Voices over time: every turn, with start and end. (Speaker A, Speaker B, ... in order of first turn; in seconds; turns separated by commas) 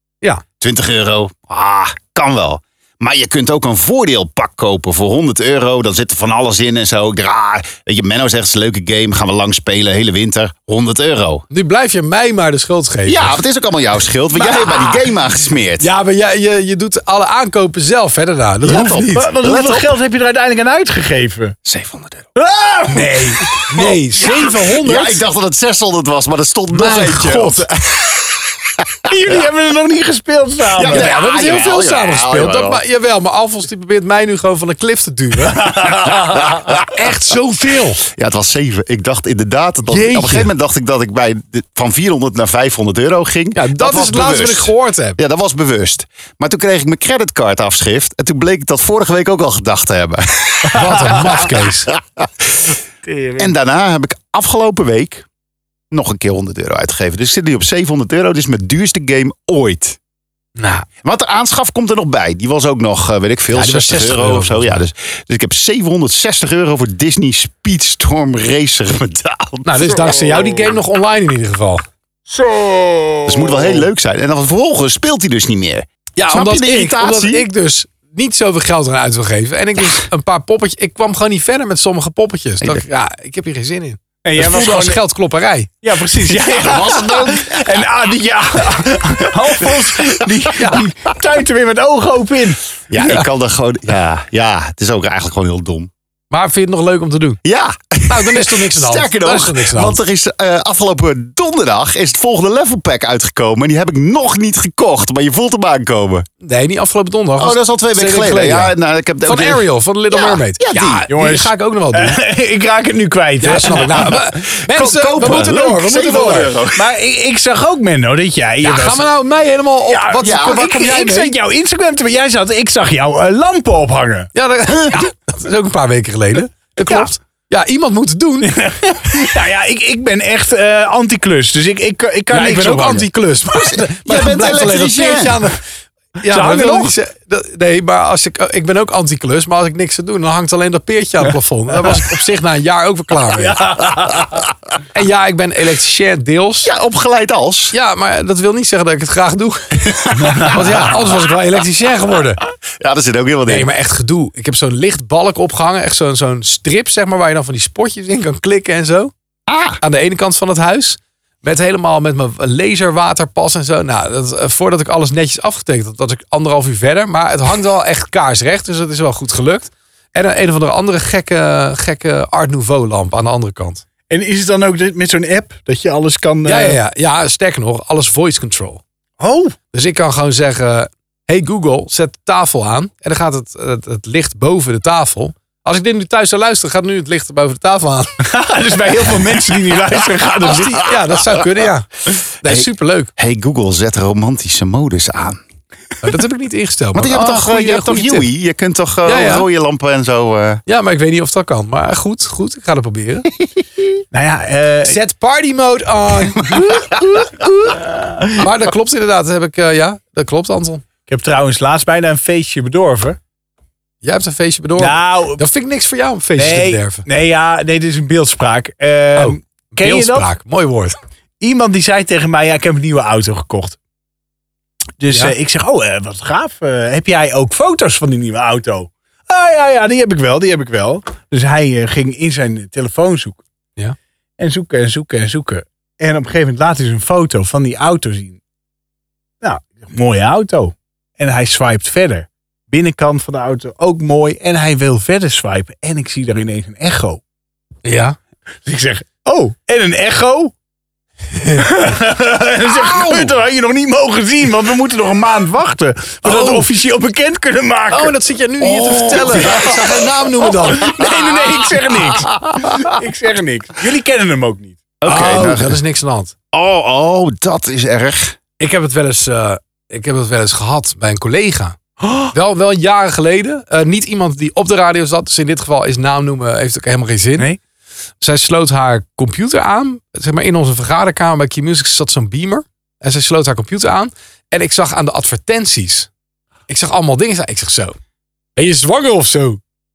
Speaker A: 0.6-11.4, Speaker B: 11.5-13.4, Speaker A: 13.1-15.9, Speaker C: 14.4-15.0, Speaker B: 15.8-19.3, Speaker A: 18.6-19.9, Speaker C: 18.7-21.6, Speaker A: 21.6-22.3, Speaker C: 22.3-23.9, Speaker B: 23.6-25.2, Speaker A: 24.2-29.1, Speaker B: 26.7-27.7, Speaker C: 29.1-31.1, Speaker A: 30.8-32.8, Speaker B: 30.9-35.9, Speaker C: 35.6-36.4, Speaker A: 36.3-37.0, Speaker B: 36.9-38.0, Speaker A: 38.0-51.2, Speaker B: 39.9-40.5, Speaker B: 43.5-45.2, Speaker B: 50.7-51.9, Speaker A: 51.9-52.7, Speaker C: 53.0-53.5, Speaker A: 53.4-55.2, Speaker A: 55.9-60.0, Speaker B: 60.6-60.9, Speaker A: 61.0-69.9, Speaker B: 63.5-64.8, Speaker B: 69.6-71.8, Speaker C: 72.4-73.7, Speaker A: 73.2-77.5, Speaker B: 76.2-85.7, Speaker C: 84.2-85.0, Speaker C: 85.8-93.2, Speaker A: 86.4-87.8, Speaker A: 92.9-95.9, Speaker B: 96.3-97.4, Speaker A: 97.4-106.2, Speaker B: 98.1-100.0, Speaker B: 106.4-112.2, Speaker A: 107.4-111.0, Speaker C: 111.1-114.2, Speaker B: 113.4-116.5, Speaker A: 113.9-116.8, Speaker C: 116.0-119.1, Speaker B: 118.6-121.3, Speaker C: 119.9-124.3, Speaker A: 120.2-120.7, Speaker B: 124.3-128.6, Speaker C: 128.4-133.1, Speaker B: 132.3-135.6, Speaker A: 133.5-135.4, Speaker B: 136.2-143.6, Speaker C: 136.2-136.9, Speaker C: 143.4-144.4, Speaker B: 144.9-146.7, Speaker A: 146.6-147.7, Speaker B: 147.7-152.4, Speaker A: 150.0-151.2, Speaker C: 150.2-150.5, Speaker A: 152.8-153.7, Speaker B: 153.5-159.1, Speaker A: 159.5-159.8, Speaker B: 159.8-173.8, Speaker C: 174.1-176.8, Speaker B: 176.4-178.8, Speaker C: 179.2-179.6, Speaker B: 179.7-188.2, Speaker C: 188.2-190.8, Speaker B: 190.4-193.1, Speaker A: 192.4-195.4, Speaker B: 196.0-198.3, Speaker A: 196.9-200.6, Speaker B: 199.1-199.5, Speaker B: 200.7-203.3, Speaker C: 204.1-204.9, Speaker B: 204.8-207.8, Speaker C: 208.0-208.3, Speaker B: 208.3-210.8, Speaker C: 211.1-213.2, Speaker B: 214.0-217.1, Speaker C: 214.8-215.4, Speaker C: 216.4-220.3, Speaker B: 219.2-220.9, Speaker C: 221.4-223.8, Speaker C: 225.0-233.4, Speaker C: 234.4-238.4, Speaker C: 239.4-247.2, Speaker B: 247.8-248.2, Speaker C: 248.7-250.5, Speaker B: 251.3-251.7, Speaker C: 251.6-258.1, Speaker A: 253.0-253.3, Speaker B: 256.2-256.6, Speaker B: 257.9-260.9, Speaker A: 258.6-260.1, Speaker C: 259.3-259.7, Speaker C: 260.6-264.8, Speaker A: 260.7-262.9, Speaker A: 265.0-265.8, Speaker B: 265.0-266.3, Speaker A: 266.5-268.4, Speaker B: 268.6-271.8, Speaker C: 272.0-272.3, Speaker B: 272.3-277.5, Speaker B: 278.2-286.1, Speaker B: 286.7-288.0, Speaker B: 288.6-289.6